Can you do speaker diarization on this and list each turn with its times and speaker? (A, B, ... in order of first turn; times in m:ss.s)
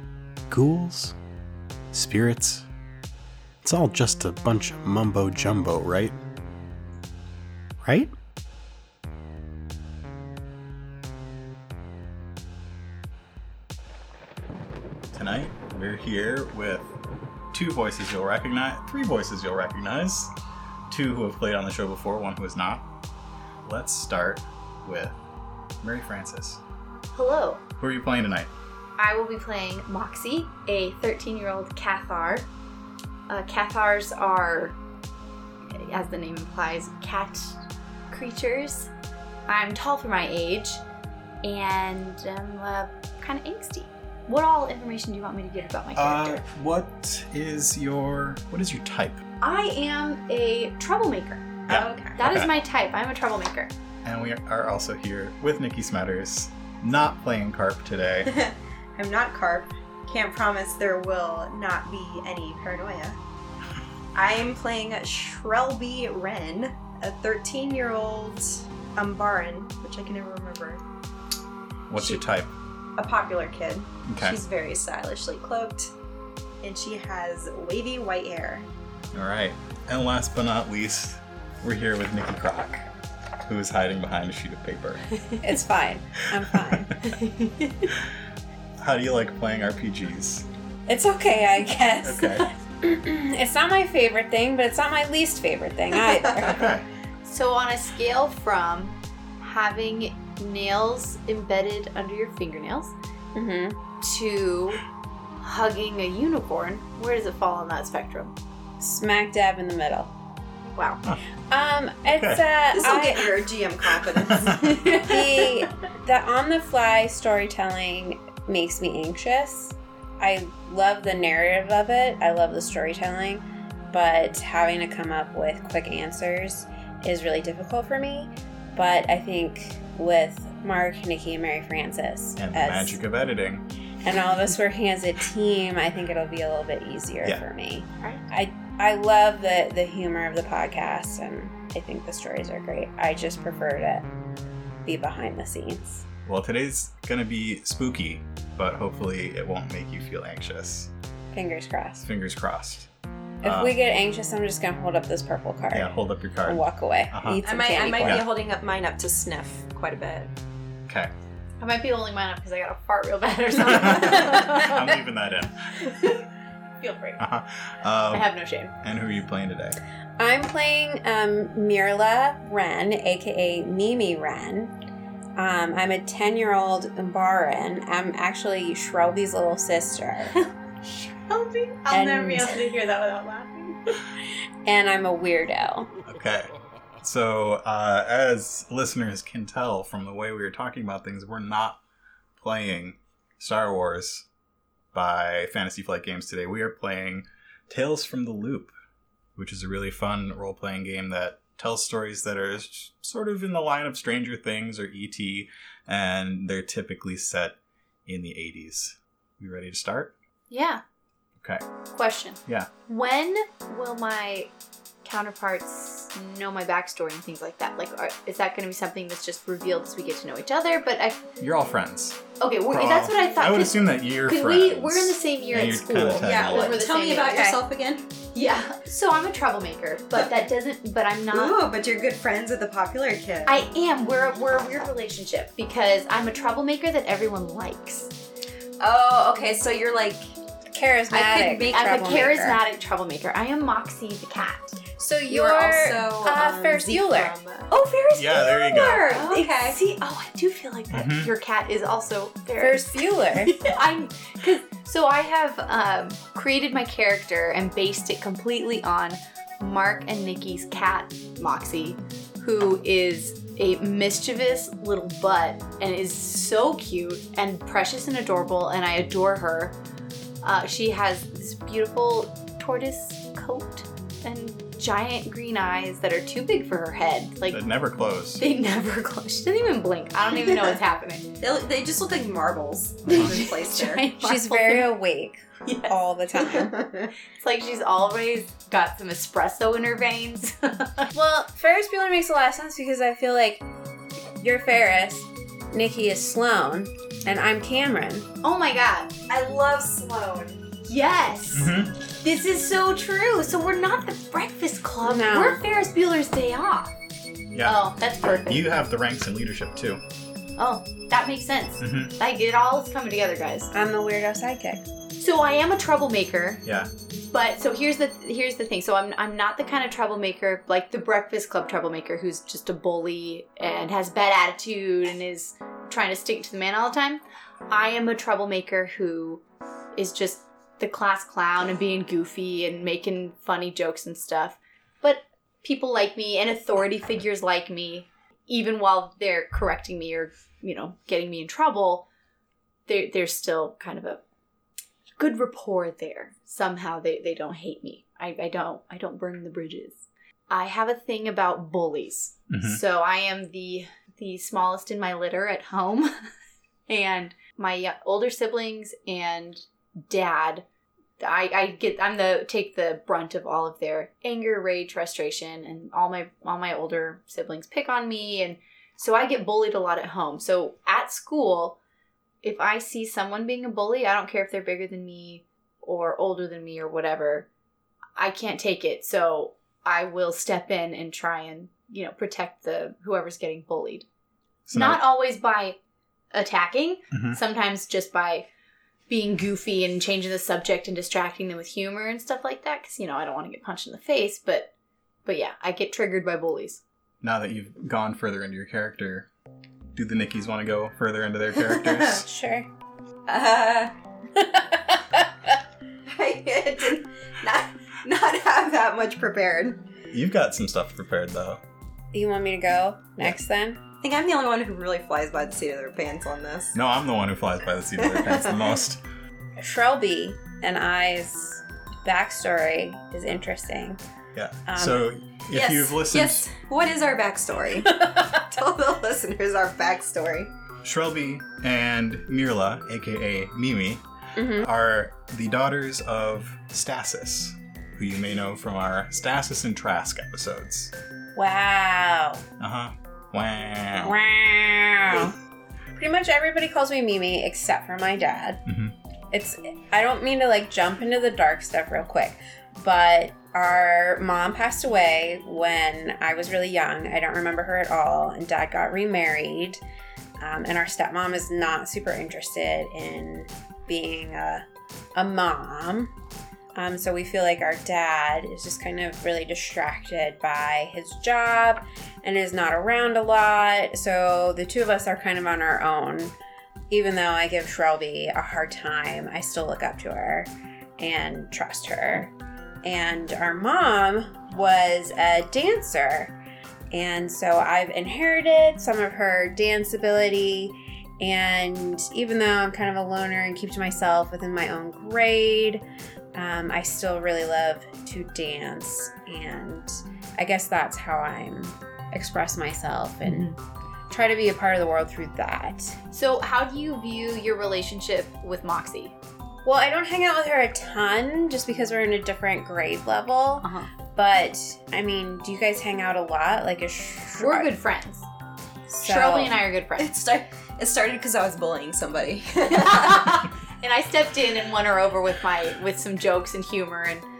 0:00.5-0:01.1 A
0:01.9-0:02.7 A
0:03.6-0:06.2 A
0:07.8-0:08.1 A
0:15.1-0:16.9 B
0:17.5-0:20.3 B
0:20.9-0:22.8 B
0:23.6-0:25.2 B
0:25.8-0:26.6 B
0:27.1-0:27.6 C
0:27.8-0:28.5 B
0:29.0-0:32.5 C
0:33.3-0:34.8 C
0:35.7-0:37.6 C
0:38.1-0:38.9 C
0:39.5-0:40.8 C
0:41.4-0:46.4 C
0:46.0-0:49.2 B
0:49.4-0:51.6 C
0:51.7-0:52.5 B
0:51.7-0:52.2 D
0:52.2-0:53.7 C
0:54.0-0:58.3 B
0:58.2-1:03.2 D
1:04.1-1:10.8 D
1:11.9-1:12.6 B
1:12.0-1:12.2 D
1:13.0-1:15.9 D
1:14.1-1:14.4 B
1:16.6-1:18.7 D
1:19.1-1:22.9 B
1:23.5-1:25.0 B
1:25.4-1:26.9 E
1:27.0-1:27.9 C
1:28.8-1:30.5 B
1:30.9-1:36.7 E
1:32.0-1:32.5 B
1:35.9-1:36.6 D
1:36.4-1:36.9 B
1:37.2-1:42.9 C
1:43.4-1:43.8 E
1:44.0-1:44.8 C
1:45.4-1:48.3 C
1:48.8-1:50.1 E
1:50.8-1:51.0 C
1:51.5-1:53.5 E
1:52.1-1:52.5 B
1:52.7-1:55.6 D
1:54.3-1:54.6 B
1:54.5-2:13.0 E
2:12.4-2:13.6 B
2:14.0-2:24.1 E
2:24.9-2:26.0 E
2:26.2-2:30.9 B
2:31.3-2:32.1 E
2:32.0-2:32.9 B
2:33.4-2:33.8 B
2:33.4-2:38.2 E
2:35.7-2:37.4 B
2:37.4-2:40.3 D
2:38.0-2:38.3 B
2:40.9-2:41.1 B
2:41.6-2:44.9 C
2:43.7-2:45.5 B
2:45.8-2:46.2 C
2:46.8-2:47.2 C
2:47.2-2:48.3 B
2:48.1-2:48.7 C
2:48.8-2:49.8 B
2:50.2-2:54.7 E
2:55.4-3:00.3 E
3:00.3-3:03.8 C
3:01.9-3:02.6 E
3:04.6-3:05.9 E
3:06.1-3:11.8 B
3:12.4-3:14.3 B
3:14.9-3:18.7 B
3:19.4-3:30.1 B
3:30.5-3:30.8 C
3:31.9-3:34.5 C
3:35.0-3:41.2 C
3:41.4-3:46.9 B
3:42.4-3:47.6 C
3:46.2-3:48.1 D
3:47.3-3:47.6 E
3:48.3-3:51.6 C
3:51.3-3:53.7 D
3:53.5-3:58.1 C
3:58.8-4:00.2 D
4:00.7-4:02.6 E
4:01.1-4:02.3 D
4:01.4-4:04.8 C
4:05.0-4:07.3 E
4:05.3-4:07.7 D
4:07.7-4:29.8 C
4:08.2-4:09.2 B
4:08.7-4:09.8 D
4:10.9-4:11.3 B
4:12.6-4:13.6 E
4:30.4-4:37.6 C
4:37.5-4:38.4 B
4:38.4-4:41.3 C
4:41.4-4:44.0 D
4:43.1-4:43.3 B
4:43.1-4:44.9 C
4:44.2-4:46.8 E
4:45.6-4:45.9 C
4:46.7-4:47.1 D
4:47.4-4:51.1 C
4:51.1-4:53.6 E
4:54.4-4:58.3 E
4:58.4-4:59.2 C
4:59.3-5:00.6 D
5:00.9-5:06.9 C
5:01.5-5:02.0 B
5:05.0-5:05.6 E
5:07.5-5:07.8 B
5:07.6-5:08.7 C
5:08.5-5:10.0 B
5:10.6-5:13.7 C
5:11.8-5:12.1 B
5:13.7-5:14.8 E
5:15.2-5:16.6 C
5:16.6-5:16.9 B
5:17.3-5:29.4 C
5:30.0-5:42.1 C
5:42.9-5:44.2 C
5:45.2-5:56.2 C
5:52.5-5:52.8 B
5:56.9-6:00.6 C
6:01.2-6:11.8 C
6:12.4-6:17.5 C
6:18.2-6:24.1 C
6:24.7-6:25.0 B
6:24.7-6:25.8 C
6:26.3-6:28.5 C
6:27.1-6:27.4 B
6:29.1-6:34.7 C
6:35.3-6:36.8 C
6:37.2-6:39.3 B
6:39.9-6:42.3 B
6:41.8-6:42.2 D
6:42.2-6:42.7 E
6:43.3-6:43.9 D
6:44.4-6:45.3 E
6:46.1-6:49.8 D
6:50.1-6:51.6 B
6:52.1-6:53.8 E
6:54.0-6:56.8 D
6:56.7-6:59.0 B
6:58.1-6:58.5 D
6:59.6-7:04.0 E
7:04.3-7:06.5 B
7:04.7-7:05.0 E
7:05.5-7:10.5 D
7:10.8-7:20.9 B
7:14.4-7:14.7 E
7:21.4-7:22.4 E
7:22.6-7:24.2 B
7:24.0-7:25.4 E
7:26.0-7:28.6 E
7:28.7-7:28.9 B
7:29.3-7:39.8 E
7:40.4-7:46.1 E
7:46.8-7:56.3 E
7:56.9-8:02.3 E
8:02.8-8:06.3 E
8:06.9-8:15.8 E
8:16.4-8:23.6 E
8:23.3-8:23.6 C
8:24.1-8:26.0 E
8:26.1-8:29.2 C
8:29.6-8:37.7 E
8:33.6-8:33.9 C
8:37.4-8:38.3 C
8:38.9-8:39.6 E
8:39.0-8:40.1 C
8:40.0-8:43.5 D
8:42.7-8:47.2 C